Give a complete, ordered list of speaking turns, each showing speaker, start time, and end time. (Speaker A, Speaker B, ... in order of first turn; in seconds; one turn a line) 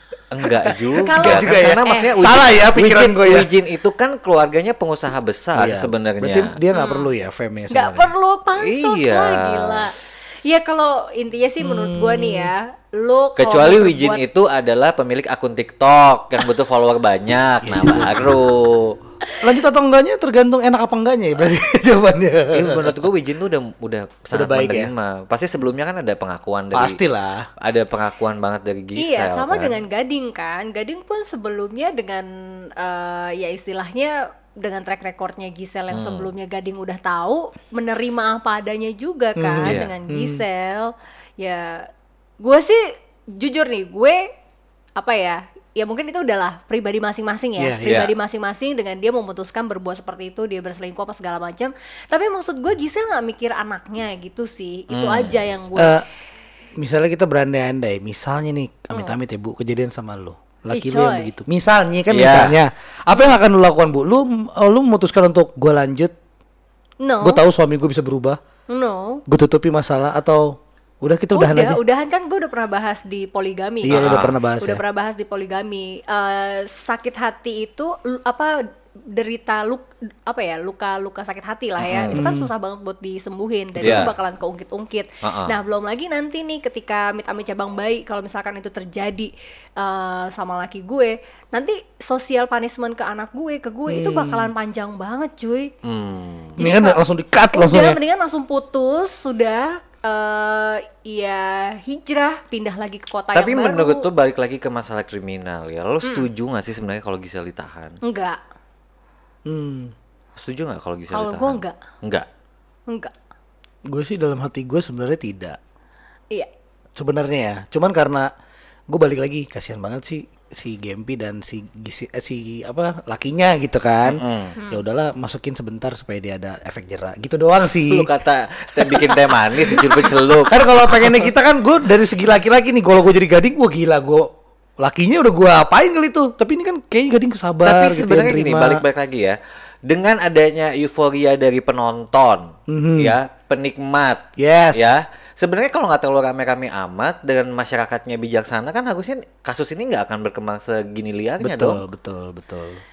Speaker A: 0.3-6.5
Speaker B: 0.7-3.5
Speaker C: 1.0-2.3
Speaker B: 5.6-8.1
Speaker C: 6.7-7.1
Speaker C: 7.7-14.2
Speaker A: 8.6-9.9
Speaker B: 11.6-12.5
Speaker A: 13.3-18.9
Speaker B: 17.6-18.3
Speaker B: 19.4-22.9
Speaker A: 22.5-27.0
Speaker B: 24.3-24.9
Speaker B: 26.7-27.5
Speaker A: 27.6-29.8
Speaker C: 28.9-32.3
Speaker C: 32.8-41.9
Speaker A: 35.9-36.3
Speaker B: 39.4-40.4
Speaker A: 39.6-39.9
Speaker C: 42.4-42.8
Speaker C: 43.3-44.2
Speaker C: 45.0-56.0
Speaker B: 47.6-48.0
Speaker A: 47.9-48.1
Speaker A: 54.9-55.4
Speaker B: 55.8-56.0
Speaker B: 56.8-66.1
Speaker C: 60.7-61.3
Speaker A: 62.1-62.6
Speaker C: 67.0-67.4
Speaker B: 67.2-68.4
Speaker C: 68.7-69.2
Speaker B: 69.3-70.4
Speaker B: 71.0-71.8
Speaker C: 71.3-78.5
Speaker B: 73.8-74.8
Speaker A: 73.9-74.3
Speaker C: 79.1-95.7
Speaker A: 81.8-82.2
Speaker B: 82.1-82.5
Speaker B: 83.8-84.1
Speaker A: 83.8-84.1
Speaker A: 85.2-85.5
Speaker B: 93.9-94.5
Speaker A: 95.8-96.6
Speaker C: 96.6-97.0
Speaker B: 96.6-98.0
Speaker C: 97.5-104.0
Speaker A: 103.3-108.0
Speaker C: 108.0-108.4
Speaker B: 109.5-109.9
Speaker A: 110.3-112.2
Speaker C: 111.1-111.8
Speaker B: 113.9-115.6
Speaker B: 117.0-118.3
Speaker B: 118.9-128.1
Speaker A: 124.0-124.5
Speaker A: 127.9-131.3
Speaker B: 128.8-134.3
Speaker B: 134.8-138.8
Speaker A: 137.6-144.2
Speaker B: 142.7-143.2
Speaker B: 144.4-145.0
Speaker A: 144.7-151.8
Speaker B: 151.4-152.8